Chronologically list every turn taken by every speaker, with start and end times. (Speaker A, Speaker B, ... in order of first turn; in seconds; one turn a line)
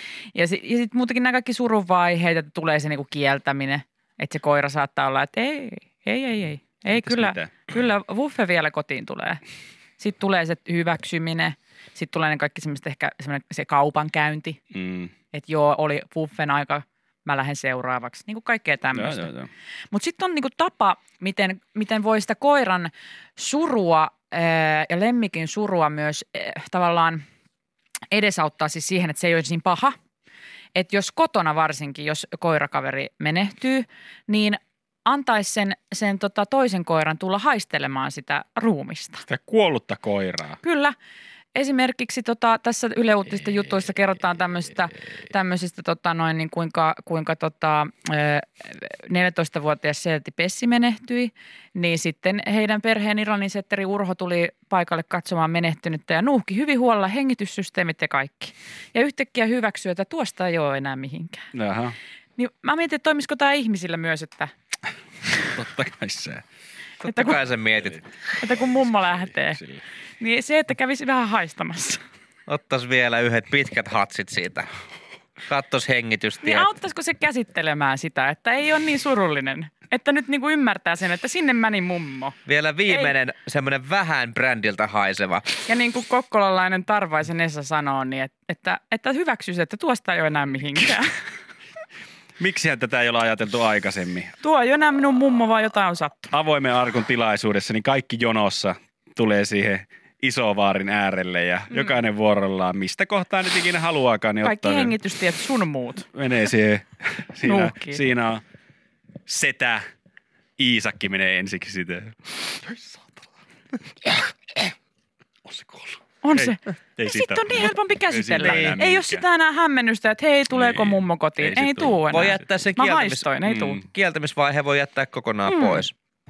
Speaker A: 0.3-9.4
Speaker B: 6.9-7.5
Speaker A: 10.0-14.6
Speaker B: 14.7-15.1
Speaker A: 15.3-19.3
Speaker B: 18.9-19.5
Speaker A: 19.9-27.2
Speaker A: 28.1-29.9
Speaker A: 30.7-39.2
Speaker B: 39.3-40.6
Speaker A: 40.6-40.9
Speaker A: 41.5-61.5
Speaker B: 61.5-62.0
Speaker A: 62.4-64.5
Speaker B: 65.5-66.4
Speaker C: 67.0-68.0
Speaker A: 67.0-67.4
Speaker B: 67.8-68.0
Speaker A: 68.3-69.6
Speaker B: 68.5-69.8
Speaker A: 70.2-72.0
Speaker C: 72.5-74.7
Speaker C: 75.5-76.7
Speaker A: 76.4-82.4
Speaker C: 82.5-85.5
Speaker A: 82.9-83.1
Speaker A: 85.7-91.2
Speaker B: 92.4-94.3
Speaker A: 94.4-96.3
Speaker B: 96.3-105.0
Speaker A: 104.4-106.1
Speaker B: 106.1-108.4
Speaker A: 107.4-108.0
Speaker B: 109.3-109.8
Speaker B: 110.6-113.1
Speaker B: 115.5-119.2
Speaker A: 116.2-123.8
Speaker C: 118.4-118.8
Speaker B: 120.5-122.4
Speaker C: 122.1-125.9
Speaker B: 123.4-123.8
Speaker A: 125.5-125.8